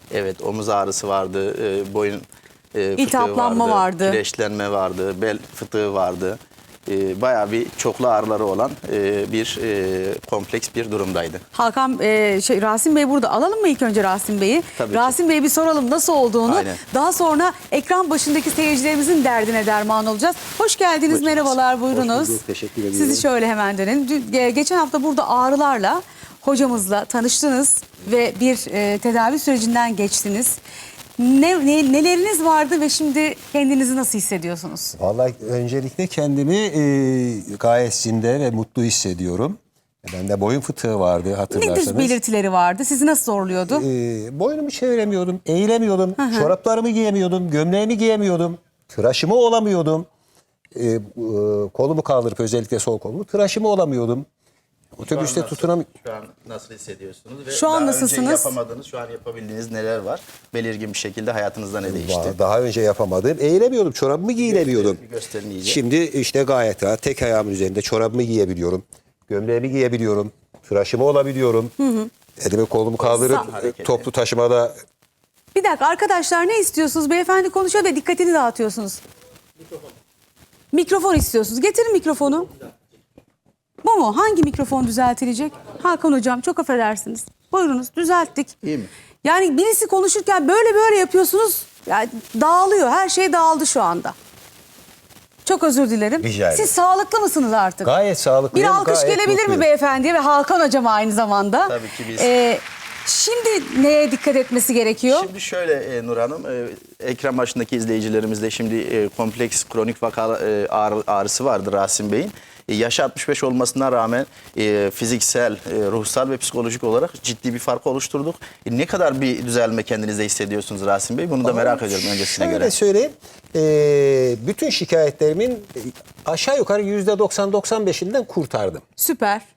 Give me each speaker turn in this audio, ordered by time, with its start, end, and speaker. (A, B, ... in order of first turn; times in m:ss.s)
0:00.1-0:11.4 A
0:03.0-0:04.2 B
0:11.5-0:22.4 B
0:14.8-0:15.1 A
0:16.5-0:16.8 A
0:21.1-0:21.5 A
0:21.9-0:23.2 C
0:22.9-0:30.6 B
0:31.2-0:35.0 B
0:35.0-0:42.2 C
0:41.5-0:43.8 B
0:43.7-0:50.1 C
0:46.2-0:46.5 B
0:50.7-0:54.2 C
0:55.0-0:55.9 C
0:55.0-1:02.4 A
0:57.5-0:58.5 B
1:01.8-1:05.0 C
1:04.4-1:05.8 A
1:05.6-1:11.7 C
1:11.8-1:12.1 B
1:12.4-1:14.8 C
1:13.0-1:14.1 A
1:13.2-1:13.4 B
1:15.5-1:19.0 B
1:20.7-1:22.5 B
1:23.8-1:28.5 B
1:28.6-1:28.9 A
1:29.2-1:34.1 B
1:35.4-1:37.9 B
1:36.2-1:36.7 C
1:37.8-1:39.6 C
1:38.5-1:45.3 B
1:41.7-1:42.3 A
1:45.1-2:02.7 A
2:01.4-2:08.8 C
2:09.0-2:09.4 B